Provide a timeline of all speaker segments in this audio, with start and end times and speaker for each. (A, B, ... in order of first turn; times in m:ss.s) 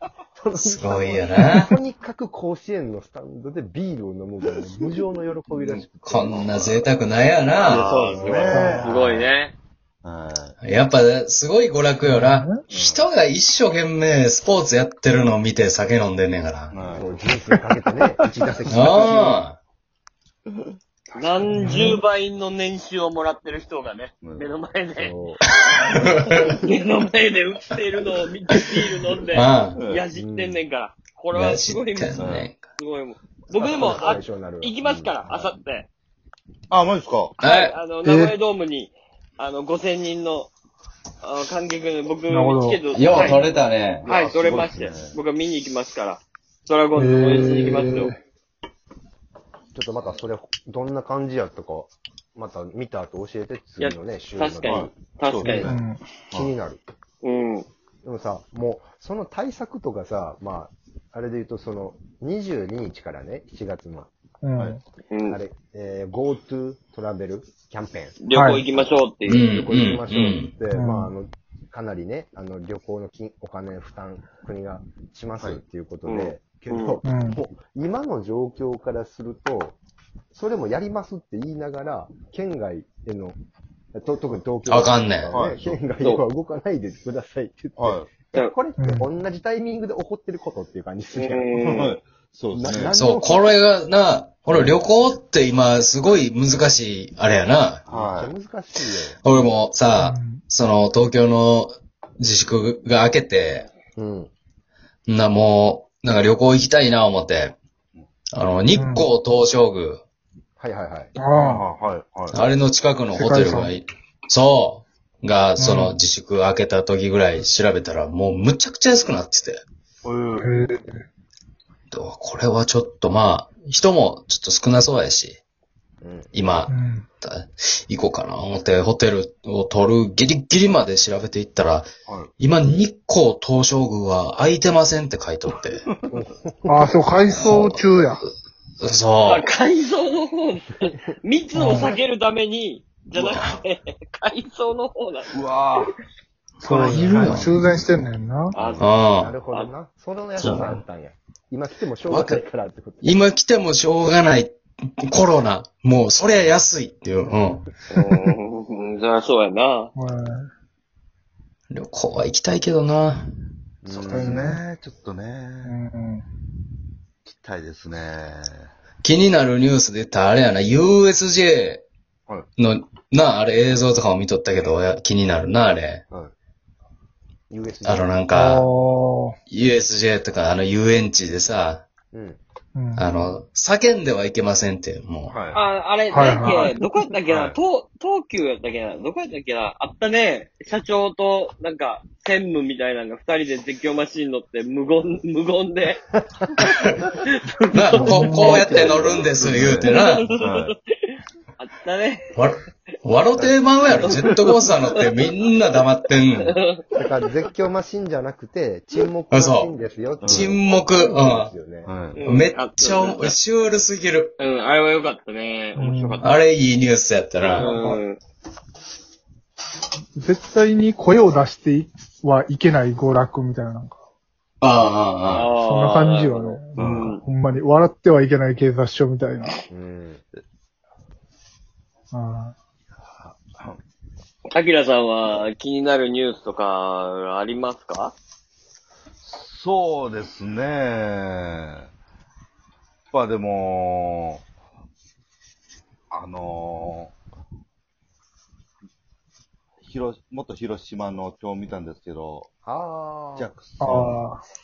0:00.4-0:06.6 A
0:00.6-0:01.7 B
0:06.0-0:07.8 B
0:07.6-0:09.3 C
0:07.7-0:09.5 D
0:08.0-0:08.7 A
0:08.5-0:08.9 E
0:10.0-0:10.6 C
0:10.6-0:16.8 B
0:12.0-0:12.6 E
0:12.7-0:13.0 C
0:16.7-0:17.1 C
0:16.9-0:19.4 A
0:18.7-0:19.6 B
0:21.2-0:25.1 D
0:21.4-0:22.0 E
0:24.2-0:24.5 C
0:25.0-0:25.4 A
0:25.8-0:26.6 B
0:26.3-0:35.9 D
0:29.3-0:29.8 B
0:29.8-0:30.0 C
0:30.1-0:30.6 A
0:31.3-0:32.6 B
0:32.2-0:32.5 C
0:33.6-0:34.1 C
0:33.7-0:35.6 A
0:36.7-0:37.3 C
0:37.4-0:37.8 B
0:37.4-0:40.5 D
0:38.0-0:38.4 E
0:41.2-0:48.1 D
0:42.3-0:42.8 E
0:42.9-0:44.1 B
0:44.0-0:45.2 C
0:47.0-0:48.2 E
0:49.7-0:54.9 A
0:53.8-0:55.7 D
0:54.6-0:55.8 C
0:55.4-0:55.7 A
0:55.6-0:56.1 E
0:56.3-0:56.8 A
0:57.2-0:57.7 D
0:58.0-1:04.1 A
1:04.4-1:04.8 E
1:05.1-1:05.4 D
1:05.3-1:08.2 A
1:08.2-1:09.5 D
1:08.3-1:08.6 E
1:09.2-1:10.5 B
1:09.5-1:19.8 A
1:10.7-1:11.1 E
1:16.0-1:17.0 D
1:17.0-1:17.4 E
1:20.3-1:23.4 A
1:24.0-1:31.6 A
1:24.7-1:25.4 B
1:25.3-1:25.8 C
1:27.8-1:28.1 C
1:28.8-1:29.1 E
1:31.2-1:32.0 D
1:31.6-1:32.9 C
1:32.5-1:33.4 A
1:32.9-1:37.8 B
1:37.9-1:38.4 C
1:37.9-1:39.4 A
1:39.2-1:43.7 B
1:39.9-1:40.4 E
1:44.0-1:44.3 A
1:45.1-1:47.6 B
1:48.3-1:50.0 B
1:48.7-1:49.1 E
1:50.6-1:51.2 A
1:51.2-1:51.6 E
1:51.4-1:52.4 C
1:52.3-1:59.6 B
1:53.1-1:53.7 E
1:55.6-1:56.0 E
2:00.0-2:00.5 C
2:00.4-2:01.0 E
2:01.9-2:05.4 B
2:06.0-2:06.3 A
2:06.3-2:11.9 B
2:06.7-2:07.1 E
2:12.1-2:12.3 C
2:12.4-2:15.8 B
2:16.1-2:16.9 A
2:16.7-2:18.2 E
2:17.3-2:18.1 B
2:18.8-2:19.4 B
2:19.3-2:25.3 D
2:21.5-2:22.0 E
2:21.7-2:22.0 A
2:23.2-2:23.4 C
2:25.3-2:25.9 C
2:26.6-2:28.6 E
2:26.6-2:27.6 B
2:28.6-2:28.8 C
2:28.6-2:28.9 D
2:28.8-2:29.3 B
2:29.1-2:33.2 A
2:30.4-2:30.8 B
2:32.1-2:32.4 B
2:33.0-2:37.7 B
2:37.9-2:39.9 D
2:40.0-2:40.5 E
2:41.7-2:43.3 B
2:43.8-2:44.5 A
2:43.9-2:44.6 E
2:44.1-2:45.8 C
2:45.6-2:46.3 E
2:47.2-2:48.7 C
2:49.0-2:51.8 B
2:52.6-2:56.0 B
2:57.5-2:58.2 A
2:57.8-2:58.6 B
2:58.3-2:59.4 E
2:59.5-3:01.8 B
3:02.1-3:02.4 A
3:02.8-3:03.1 E
3:03.0-3:05.4 B
3:05.3-3:05.6 C
3:05.5-3:16.0 D
3:06.1-3:06.7 E
3:07.3-3:07.6 C
3:17.3-3:19.0 D
3:17.7-3:20.3 B
3:18.0-3:18.8 E
3:18.3-3:20.7 C
3:18.8-3:19.2 A
3:19.5-3:22.4 D
3:22.4-3:26.6 B
3:24.0-3:24.4 D
3:26.5-3:26.8 D
3:27.0-3:31.9 A
3:29.3-3:29.7 B
3:30.2-3:30.5 C
3:30.3-3:31.5 B
3:31.8-3:32.2 C
3:32.2-3:33.3 D
3:32.2-3:34.3 B
3:34.4-3:36.3 D
3:35.8-3:36.2 E
3:36.2-3:37.7 B
3:37.6-3:38.0 E
3:37.6-3:38.2 D
3:40.2-3:44.0 E
3:44.6-3:45.5 B
3:45.3-3:47.2 D
3:45.6-3:49.6 E
3:46.8-3:47.2 C
3:49.7-3:50.2 A
3:52.1-3:52.6 E
3:53.2-3:53.8 C
3:54.5-3:58.2 D
3:59.2-4:01.9 C
4:03.1-4:04.4 C
4:06.1-4:07.1 C
4:09.8-4:12.5 C
4:12.6-4:13.5 A
4:13.4-4:14.2 C
4:13.8-4:14.4 E